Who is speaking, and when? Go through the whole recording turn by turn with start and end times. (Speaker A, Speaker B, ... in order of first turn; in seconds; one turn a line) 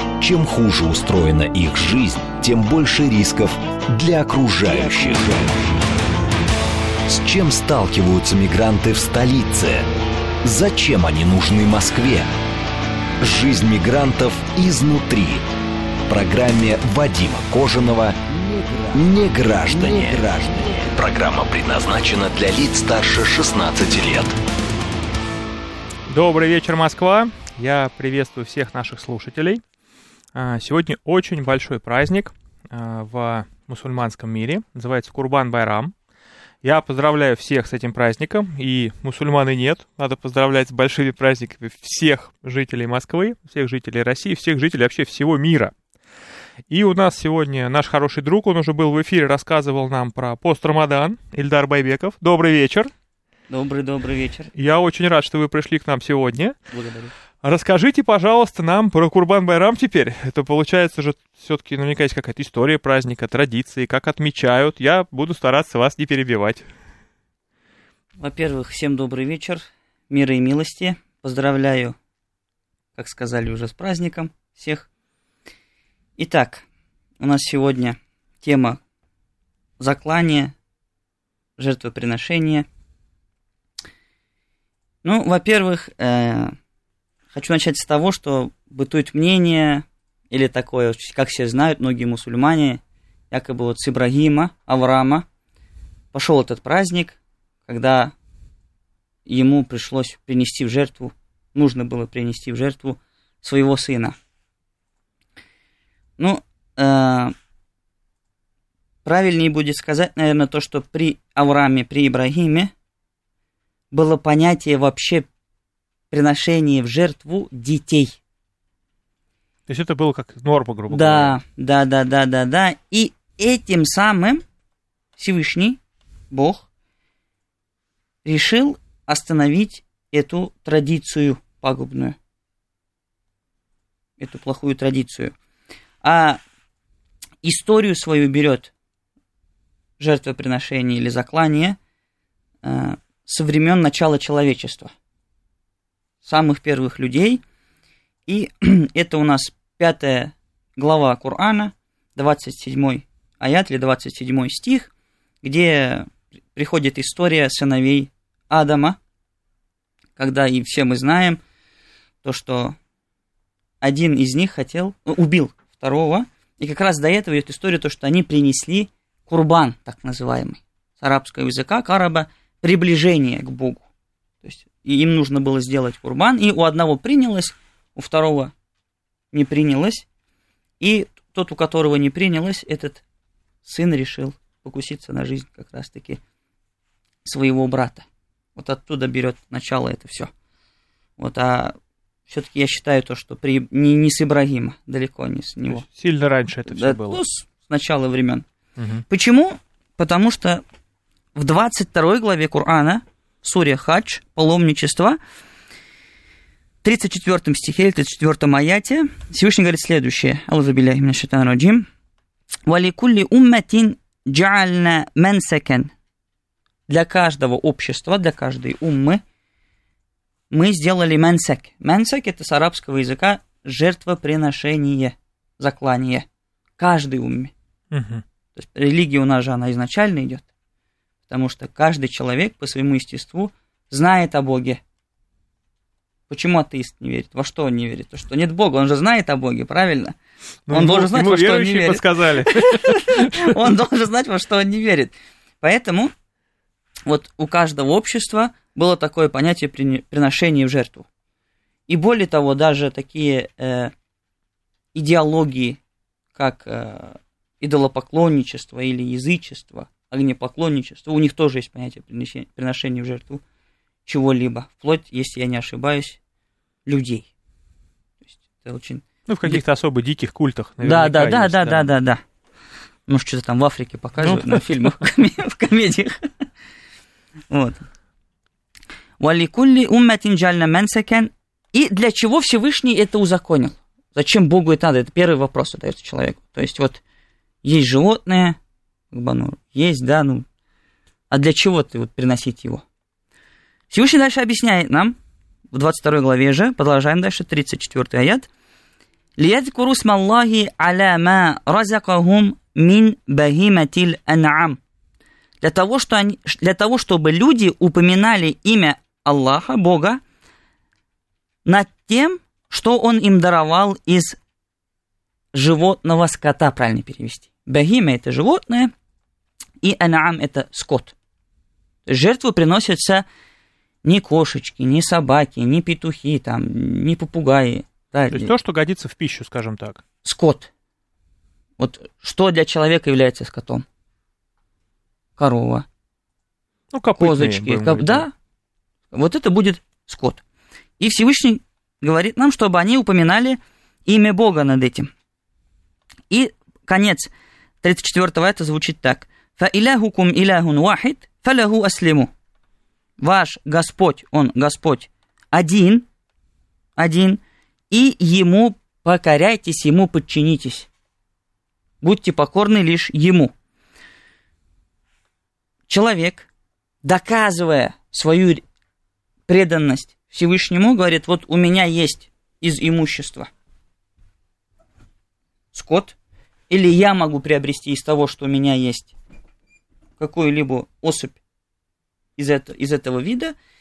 Speaker A: 0.1-5.7
Speaker A: 7.0-9.8
Speaker A: 10.4-12.3
Speaker A: 13.2-15.4
Speaker A: 16.1-24.4
Speaker B: 26.1-29.6
Speaker B: 30.3-35.9
Speaker B: 36.6-45.7
Speaker B: 46.7-52.9
Speaker C: 53.5-54.5
Speaker B: 54.5-56.5
Speaker C: 56.7-57.1
Speaker B: 57.4-66.7
Speaker C: 68.2-72.0
Speaker C: 73.0-74.9
Speaker C: 76.2-76.6
Speaker C: 77.2-78.8
Speaker C: 79.8-80.5
Speaker C: 81.6-82.7
Speaker C: 85.0-86.5
Speaker C: 87.3-92.8
Speaker C: 93.3-95.2
Speaker C: 96.1-98.1
Speaker C: 99.2-104.2
Speaker C: 106.2-107.3
Speaker C: 109.0-112.7
Speaker C: 113.9-115.3
Speaker C: 116.1-118.2
Speaker B: 119.7-121.3
Speaker C: 120.9-124.4
Speaker C: 125.2-125.8
Speaker C: 126.3-126.6
Speaker C: 128.2-132.2
Speaker C: 134.2-135.3
Speaker C: 136.0-136.4
Speaker C: 137.4-138.7
Speaker C: 140.0-141.8
Speaker C: 142.6-144.9
Speaker C: 146.2-147.4
Speaker C: 148.3-154.9
Speaker C: 155.4-159.0
Speaker C: 160.2-161.4
Speaker C: 162.2-162.8
Speaker C: 163.8-173.8
Speaker C: 174.4-178.5
Speaker C: 179.3-180.1
Speaker C: 180.8-183.0
Speaker C: 183.6-186.2
Speaker C: 187.2-188.0
Speaker C: 188.6-190.3
Speaker C: 191.2-191.8
Speaker C: 192.3-195.8
Speaker B: 195.7-197.2
Speaker C: 196.7-198.4
Speaker B: 198.8-199.0
Speaker C: 199.1-200.6
Speaker C: 201.3-205.2
Speaker C: 206.8-211.9
Speaker C: 212.7-215.9
Speaker C: 216.9-219.2
Speaker C: 220.5-226.2
Speaker C: 226.8-227.5
Speaker B: 227.9-228.2
Speaker C: 228.6-230.4
Speaker C: 231.3-234.8
Speaker C: 236.3-240.2
Speaker B: 240.7-243.5
Speaker C: 240.7-246.1
Speaker C: 247.1-251.1
Speaker C: 251.9-253.9
Speaker C: 254.9-255.8
Speaker C: 256.3-263.4
Speaker C: 264.1-266.2
Speaker C: 266.9-267.3
Speaker C: 268.2-269.6
Speaker B: 269.3-271.9
Speaker C: 270.8-272.2
Speaker C: 273.1-276.3
Speaker B: 274.2-274.6
Speaker C: 277.5-277.8
Speaker C: 279.2-287.0
Speaker C: 287.6-288.6
Speaker C: 289.1-290.4
Speaker C: 291.3-292.8
Speaker C: 293.9-295.1
Speaker C: 295.7-298.5
Speaker C: 299.4-304.8
Speaker C: 305.6-310.2
Speaker C: 311.6-314.4
Speaker C: 315.5-318.9
Speaker C: 319.8-321.1
Speaker C: 322.1-323.2
Speaker C: 324.0-328.5
Speaker B: 328.3-330.0
Speaker C: 330.2-330.7
Speaker C: 331.8-333.8
Speaker C: 335.4-335.8
Speaker B: 336.9-338.2
Speaker C: 337.2-338.3
Speaker C: 339.1-340.4
Speaker C: 341.0-345.1
Speaker C: 346.3-347.3
Speaker C: 347.8-352.3
Speaker C: 353.2-356.1
Speaker C: 357.0-357.4
Speaker C: 357.9-360.9
Speaker C: 362.0-363.5
Speaker C: 365.9-366.5
Speaker C: 367.0-368.6
Speaker C: 369.5-373.5
Speaker C: 375.7-376.1
Speaker C: 376.7-379.1
Speaker C: 380.2-381.4
Speaker C: 382.4-383.5